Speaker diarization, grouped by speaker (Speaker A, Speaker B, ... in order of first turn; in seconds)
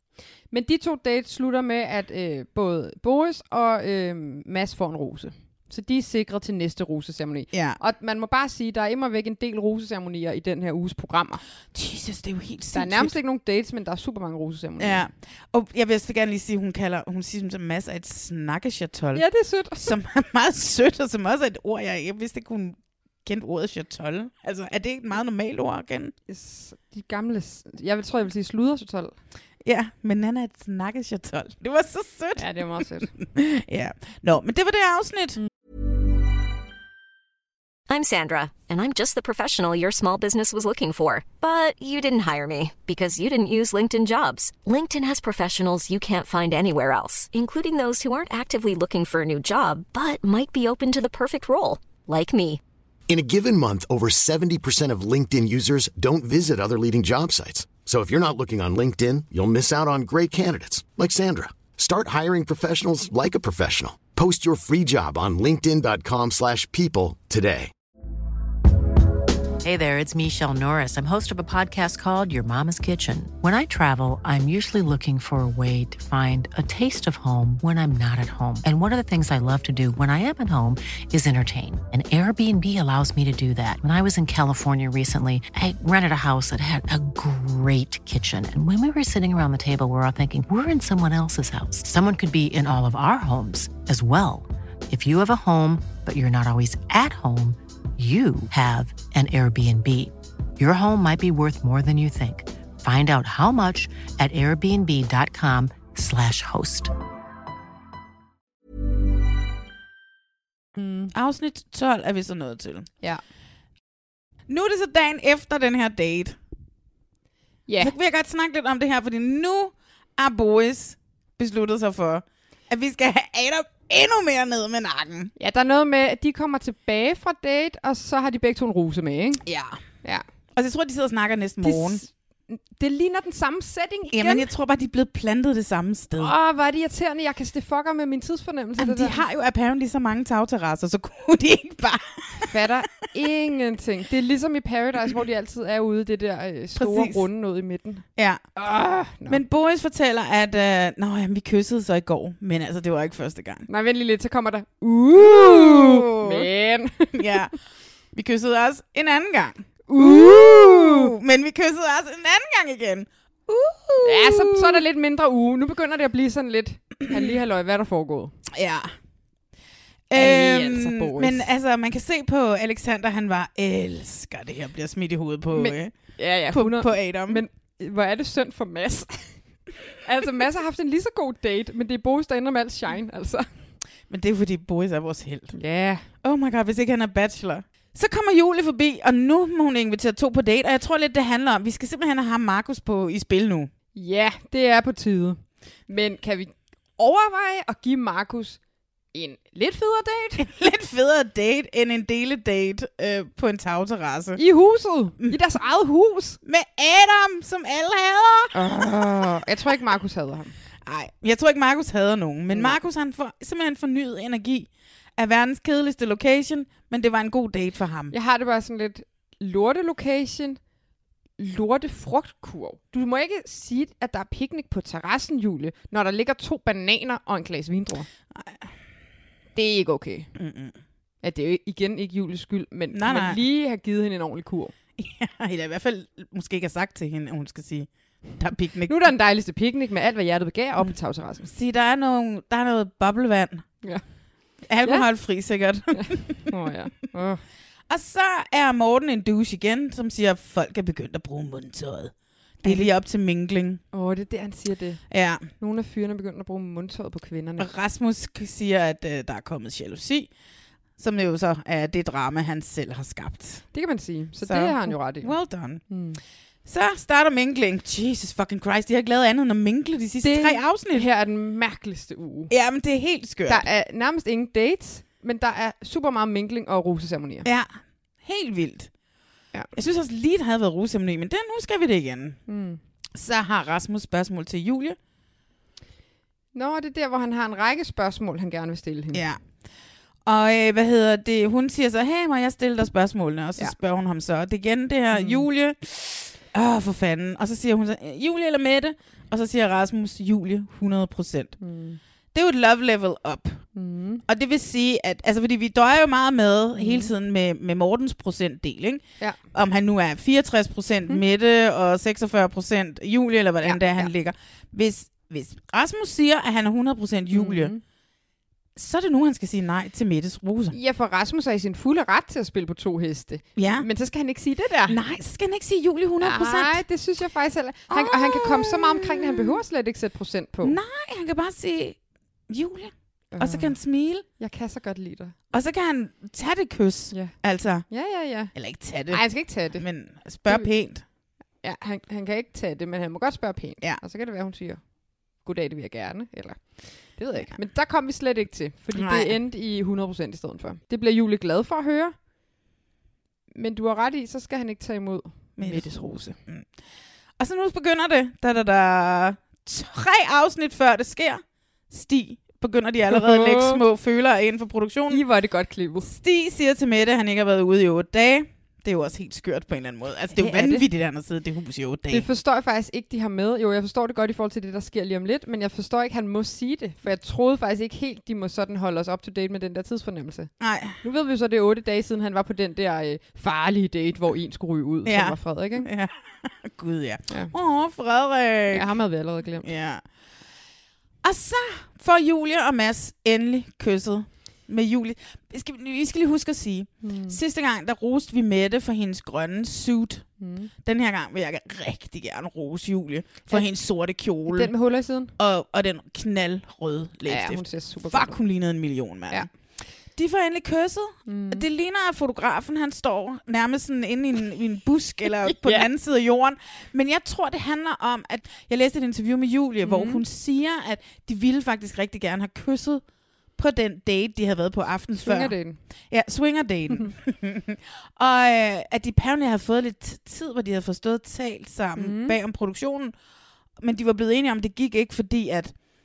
Speaker A: 0.5-11.4, 12.7-15.0, 19.1-19.9, 26.3-29.1, 32.4-33.1, 110.8-111.1, 117.7-117.9, 125.4-129.4, 131.6-134.5, 136.2-139.2, 142.5-148.1, 148.6-149.4, 153.7-157.4, 159.9-161.1, 164.0-168.3, 170.1-171.5, 175.5-179.4, 180.0-183.5, 185.5-186.1, 193.9-198.6, 199.1-200.5, 204.4-206.4, 208.5-210.5, 212.5-212.8, 218.1-220.6, 221.4-228.1, 229.6-230.3, 231.2-234.7, 238.9-241.5, 245.9-247.4, 252.6-252.9, 253.9-255.0, 255.6-257.7, 263.7-265.3, 265.9-266.2, 270.2-272.5, 273.5-277.5, 282.5-282.8, 286.5-289.2, 295.1-295.5, 301.6-302.0, 303.8-304.2, 306.8-307.1, 313.6-314.1, 317.3-317.8, 320.7-325.0, 326.2-330.8, 333.3-333.8, 334.4-335.4, 337.9-338.5, 339.1-339.9, 341.6-344.8, 345.4-352.1, 353.5-356.4, 363.1-363.8, 365.1-366.1, 370.3-370.9, 372.1-380.5, 381.0-385.9, 388.7-389.7, 397.0-397.4, 400.4-400.7, 404.5-405.3, 407.3-408.4, 411.3-411.6, 415.3-415.9, 419.8-420.2, 425.1-425.8, 432.0-432.4
Speaker B: 7.5-7.8, 11.7-13.2, 14.8-19.2, 19.8-26.1, 29.6-35.4, 111.1-112.9, 114.5-116.4, 117.8-125.3, 129.4-129.8, 130.6-132.0, 134.1-136.3, 138.8-142.5, 146.8-147.2, 148.2-148.4, 149.3-153.7, 155.1-156.5, 157.1-157.5, 158.1-164.8, 167.1-167.3, 168.5-168.9, 170.1-175.9, 176.5-177.4, 184.1-185.6, 186.2-193.7, 200.4-204.4, 206.4-209.3, 210.8-218.1, 228.3-228.7, 230.4-230.8, 232.9-233.4, 235.0-239.0, 241.4-243.7, 244.7-246.5, 247.9-253.8, 255.1-255.5, 257.6-260.3, 261.0-263.6, 264.4-265.8, 266.6-271.1, 272.5-273.6, 277.4-278.9, 279.7-282.4, 283.1-285.0, 289.1-289.4, 290.3-301.6, 302.3-303.6, 304.3-317.7, 318.8-320.8, 323.6-323.9, 324.9-326.8, 327.9-329.6, 330.6-332.0, 332.5-334.2, 335.5-337.9, 338.5-341.0, 348.9-349.4, 355.6-356.7, 357.4-365.2, 366.0-372.3, 380.6-381.0, 385.1-388.9, 389.6-390.0, 391.2-400.3, 400.8-404.7, 405.4-409.5, 410.2-423.0, 423.6-425.6, 426.1-433.1, 433.8-435.8
Speaker C: 37.9-52.6
Speaker D: 53.1-67.7
Speaker E: 69.6-106.9